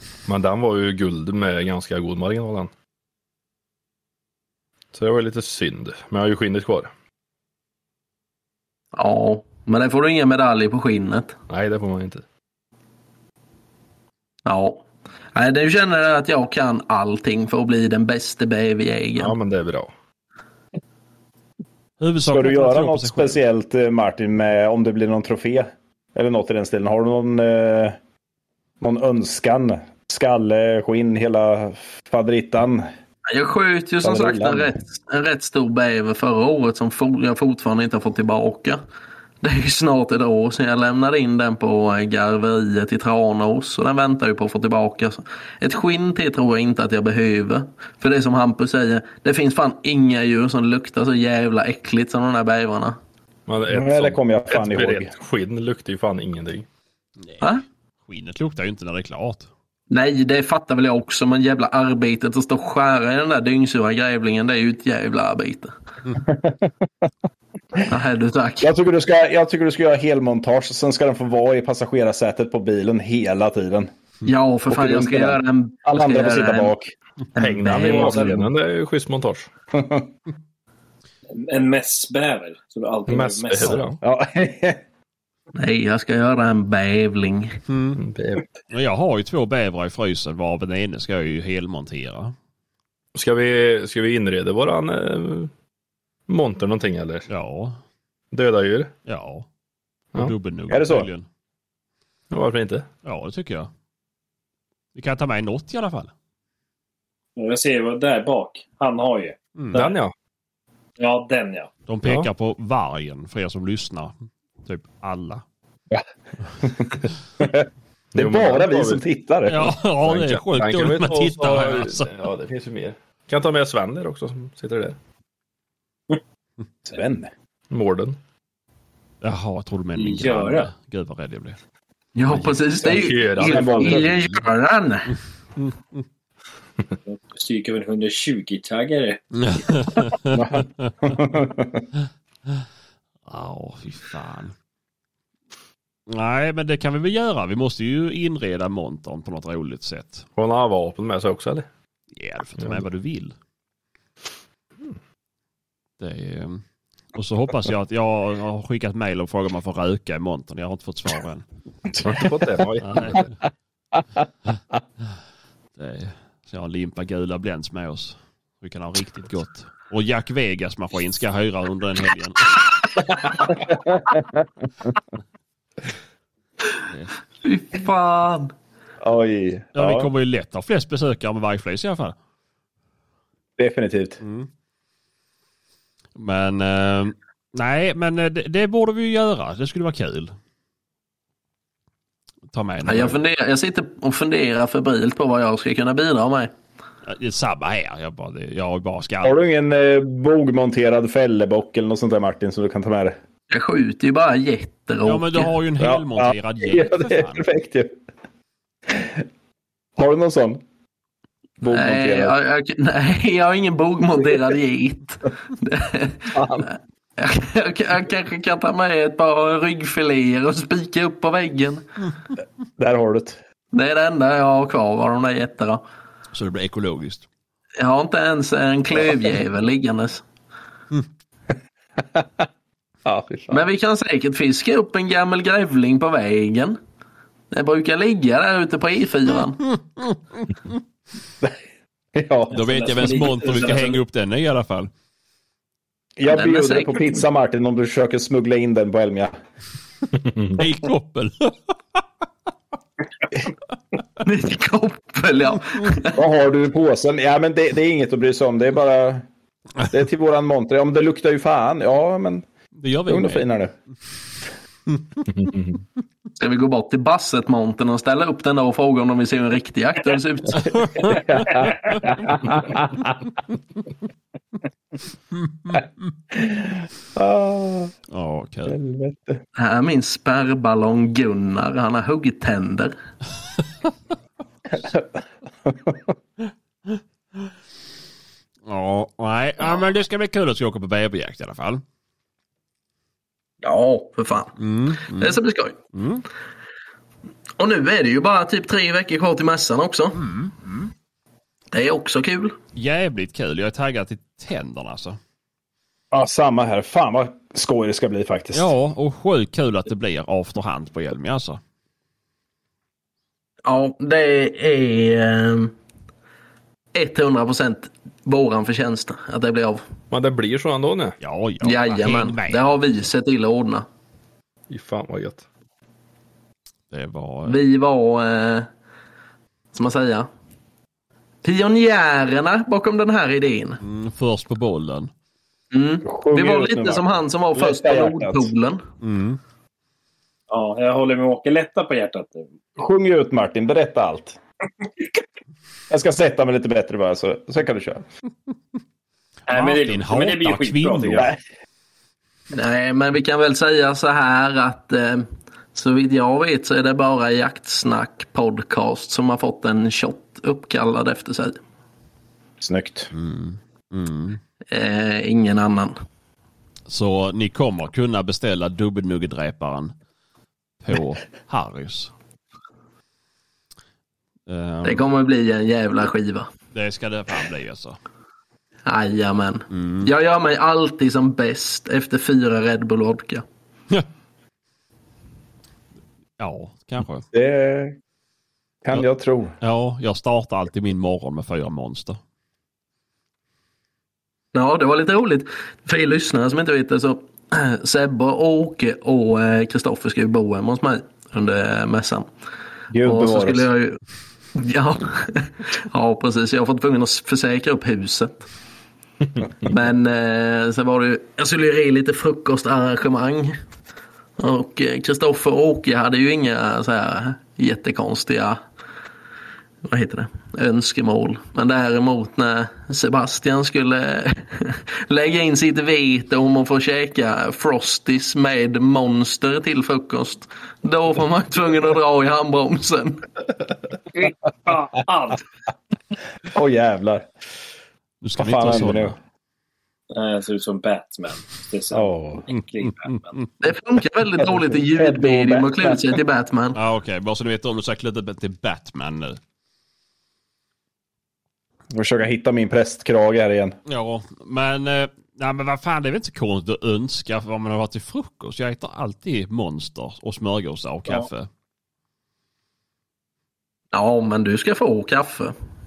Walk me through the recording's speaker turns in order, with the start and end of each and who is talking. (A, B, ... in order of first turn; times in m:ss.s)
0:00.3-0:02.7 A
0:04.9-0:06.9 A
0:08.9-0:11.4 B
0:11.5-0:12.2 A
0:14.5-0:14.8 B
0:15.4-0:19.4 B
0:19.2-0:19.9 A
0:22.0-0:23.4 C
0:22.2-0:28.0 D
0:28.8-0:32.9 D
0:33.3-0:38.8 B
0:34.0-0:34.7 D
0:39.4-0:53.0 B
0:53.5-0:56.7 A
0:53.7-0:55.1 D
0:58.1-0:59.5 C
0:59.9-1:05.7 B
1:06.2-1:06.9 D
1:07.9-1:08.7 B
1:08.6-1:13.9 D
1:14.2-1:16.7 B
1:14.7-1:16.9 D
1:17.4-1:18.4 B
1:17.4-1:19.5 A
1:19.7-1:20.1 D
1:21.3-1:23.8 E
1:23.1-1:24.0 A
1:24.0-1:24.8 D
1:25.6-1:27.6 B
1:27.7-1:28.0 C
1:28.0-1:28.5 A
1:28.7-1:32.4 C
1:33.2-1:35.5 A
1:36.3-1:37.3 A
1:37.3-1:37.8 C
1:38.3-1:38.9 A
1:39.1-1:39.5 C
1:40.2-1:41.3 C
1:40.7-1:41.1 D
1:42.3-1:42.9 A
1:43.0-1:43.7 C
1:45.0-1:46.1 C
1:47.4-1:49.9 E
1:49.6-1:49.9 C
1:49.7-1:50.1 A
1:51.0-1:51.7 E
1:51.9-1:55.4 C
1:52.0-1:52.3 A
1:56.6-1:59.8 D
1:58.1-1:59.0 A
1:59.5-2:02.1 C
2:00.0-2:05.0 A
2:06.9-2:07.3 D
2:07.7-2:08.2 A
2:09.2-2:11.6 C
2:10.0-2:10.7 E
2:12.2-2:15.1 B
2:12.3-2:12.6 C
2:12.8-2:14.0 A
2:13.4-2:14.1 D
2:17.1-2:19.2 E
2:19.4-2:20.4 C
2:20.3-2:21.8 D
2:23.3-2:24.5 C
2:26.1-2:30.3 C
2:30.4-2:31.7 A
2:32.2-2:33.4 C
2:36.0-2:36.6 C
2:37.1-2:41.5 C
2:42.0-2:43.3 A
2:42.8-2:43.2 C
2:45.8-2:52.5 C
2:53.5-2:54.4 D
2:57.4-2:58.5 B
2:59.0-3:00.1 D
2:59.8-3:02.2 C
3:03.6-3:04.2 D
3:04.2-3:04.5 C
3:06.2-3:10.3 C
3:12.5-3:13.2 C
3:12.8-3:16.5 B
3:17.1-3:19.4 C
3:19.2-3:23.2 D
3:23.5-3:25.5 B
3:25.0-3:27.5 C
3:25.8-3:28.0 D
3:28.9-3:29.2 D
3:30.0-3:30.6 D
3:31.6-3:32.4 D
3:31.7-3:36.3 B
3:36.3-3:36.7 D
3:37.2-3:41.8 B
3:42.8-3:43.4 D
3:43.7-3:45.8 B
3:46.3-3:47.3 C
3:47.8-3:50.2 B
3:53.0-3:53.6 D
3:53.5-3:56.8 B
3:57.5-3:59.6 B
3:59.7-4:00.5 C
4:02.1-4:02.6 D
4:02.5-4:04.0 E
4:02.5-4:04.9 C
4:06.2-4:09.4 D
4:06.3-4:07.2 B
4:10.2-4:10.6 A
4:10.6-4:11.6 C
4:14.2-4:16.2 B
4:16.1-4:19.2 D
4:19.9-4:22.5 D
4:22.8-4:23.5 C
4:23.1-4:23.7 D
4:25.3-4:25.8 A
4:26.4-4:31.1 B
4:30.6-4:31.1 C
4:31.1-4:33.2 D
4:36.3-4:37.9 D
4:38.1-4:38.8 C
4:38.7-4:39.4 D
4:39.6-4:42.9 B
4:44.7-4:46.1 D
4:48.7-4:51.8 C
4:53.6-4:55.8 B
4:54.6-4:55.4 C
4:55.9-4:56.2 C
4:57.6-5:00.2 B
5:00.2-5:00.9 C
5:01.7-5:02.6 B
5:02.8-5:05.2 C
5:06.1-5:08.7 D
5:08.5-5:11.6 C
5:13.6-5:15.7 B
5:16.9-5:19.8 B
5:20.1-5:21.2 A
5:21.2-5:22.6 C
5:21.6-5:23.9 B
5:24.7-5:25.5 A
5:26.9-5:27.6 C
5:27.5-5:28.7 B
5:29.7-5:30.3 B
5:31.4-5:33.8 B
5:33.8-5:35.1 C
5:35.7-5:38.8 B
5:36.0-5:38.5 D
5:39.0-5:39.4 C
5:40.5-5:42.5 E
5:42.8-5:44.4 D
5:45.9-5:48.0 D
5:49.5-5:51.3 E
5:49.5-5:51.3 C
5:52.5-6:01.6 B
6:02.6-6:03.1 D
6:03.1-6:04.4 C
6:04.7-6:06.0 B
6:06.9-6:09.9 C
6:10.8-6:12.1 C
6:14.5-6:15.0 C
6:14.8-6:16.5 B
6:16.7-6:18.0 C
6:18.9-6:23.4 B
6:19.7-6:20.1 C
6:26.4-6:27.2 C
6:27.3-6:28.0 D
6:28.8-6:29.5 D
6:29.6-6:32.2 C
6:34.5-6:42.3 B
6:42.9-6:43.7 D
6:43.0-6:44.0 B
6:44.6-6:48.4 B
6:49.6-6:53.6 B
6:54.4-6:58.6 B
6:59.8-7:13.3 B
7:14.1-7:15.4 E
7:16.5-7:17.3 D
7:18.2-7:19.2 C
7:18.4-7:19.2 D
7:20.1-7:23.4 E
7:21.9-7:22.4 D
7:22.5-7:23.5 C
7:23.6-7:26.8 B
7:24.7-7:26.2 D
7:26.7-7:29.4 C
7:31.9-7:33.8 D
7:33.9-7:41.5 C
7:43.9-7:45.6 B